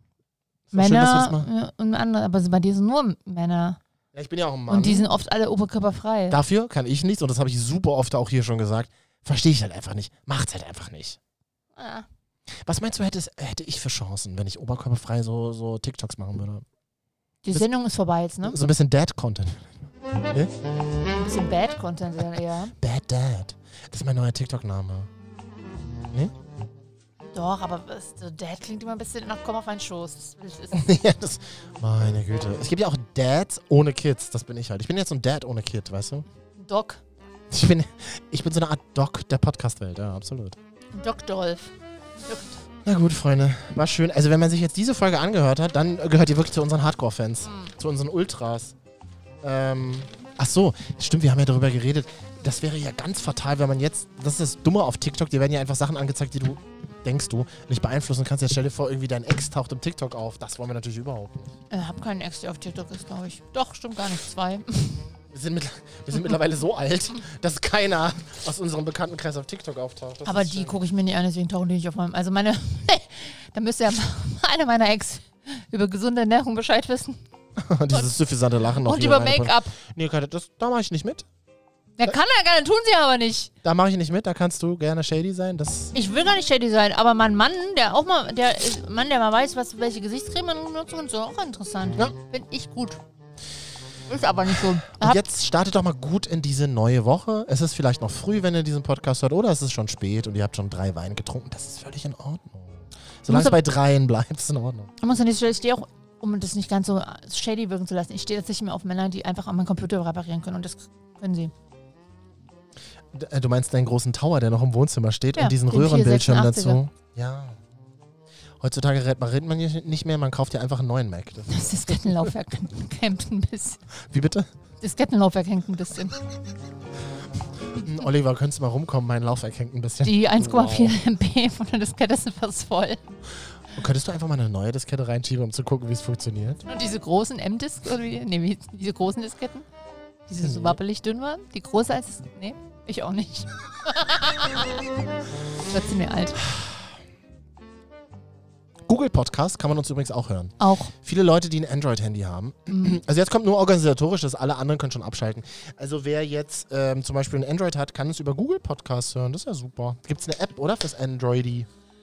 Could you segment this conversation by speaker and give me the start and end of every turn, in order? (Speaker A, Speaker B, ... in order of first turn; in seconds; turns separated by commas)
Speaker A: 0.7-1.5, Speaker B: 0.7-3.8, Speaker A: 4.1-5.1, Speaker B: 4.7-6.4, Speaker A: 6.3-11.2, Speaker B: 11.7-12.1, Speaker A: 12.6-16.6, Speaker B: 17.4-18.6, Speaker A: 18.4-19.8, Speaker B: 21.1-22.7, Speaker A: 22.8-25.1, Speaker B: 27.3-30.9, Speaker A: 30.7-36.2, Speaker B: 36.5-37.0, Speaker A: 37.5-40.6, Speaker B: 40.9-42.6, Speaker A: 42.8-48.7, Speaker B: 47.4-47.7, Speaker A: 49.4-61.5, Speaker B: 61.7-65.1, Speaker A: 65.3-70.8, Speaker B: 70.2-77.2, Speaker A: 77.6-81.2, Speaker B: 77.9-78.1, Speaker B: 78.8-79.7, Speaker B: 82.0-83.5, Speaker A: 83.6-85.9, Speaker B: 85.9-93.0, Speaker B: 94.1-95.2, Speaker A: 94.9-104.9, Speaker B: 103.3-103.6, Speaker B: 105.0-111.5, Speaker A: 113.1-117.6, Speaker B: 115.3-116.8, Speaker A: 118.6-122.3, Speaker B: 121.5-123.8, Speaker A: 124.0-124.5, Speaker B: 124.8-126.1, Speaker A: 127.8-130.9, Speaker B: 130.0-133.0, Speaker A: 133.7-136.6, Speaker B: 136.7-139.7, Speaker B: 140.3-144.8, Speaker A: 140.4-140.8, Speaker B: 145.7-146.4, Speaker A: 148.8-161.7, Speaker B: 150.6-150.9, Speaker B: 152.7-153.0